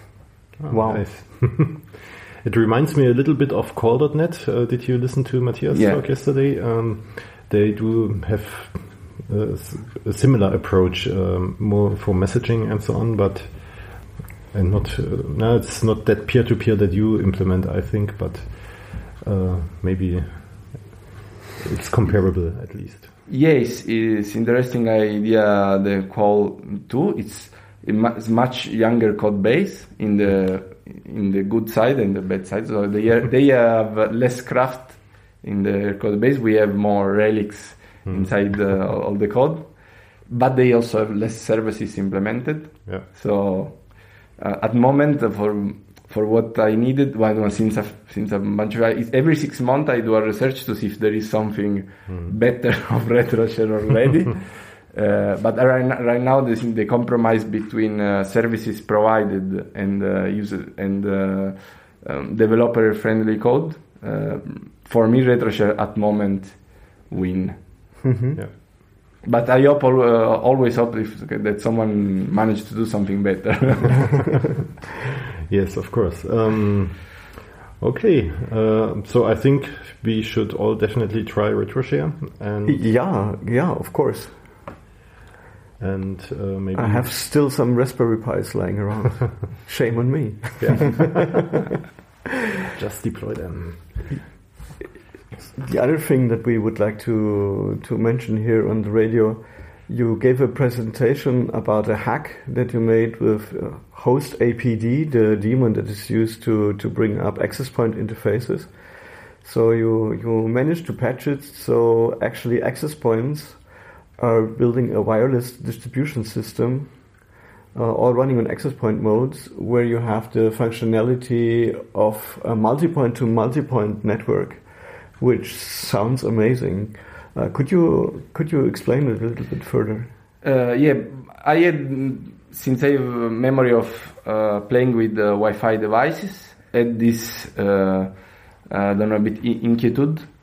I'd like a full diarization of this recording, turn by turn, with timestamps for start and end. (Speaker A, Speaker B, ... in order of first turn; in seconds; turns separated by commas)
Speaker A: 0.6-21.0, Speaker B: 0.7-1.0, Speaker C: 5.7-6.0, Speaker A: 21.6-23.1, Speaker C: 23.3-39.7, Speaker A: 38.1-38.4, Speaker C: 40.3-43.9, Speaker C: 44.4-68.0, Speaker B: 68.0-68.4, Speaker C: 69.2-74.5, Speaker A: 75.5-82.9, Speaker B: 82.7-84.4, Speaker A: 85.8-87.2, Speaker B: 86.8-91.4, Speaker A: 90.6-91.6, Speaker A: 92.8-94.1, Speaker B: 95.5-113.6, Speaker B: 114.2-117.0, Speaker B: 117.7-130.1, Speaker C: 130.4-138.1, Speaker C: 138.7-140.3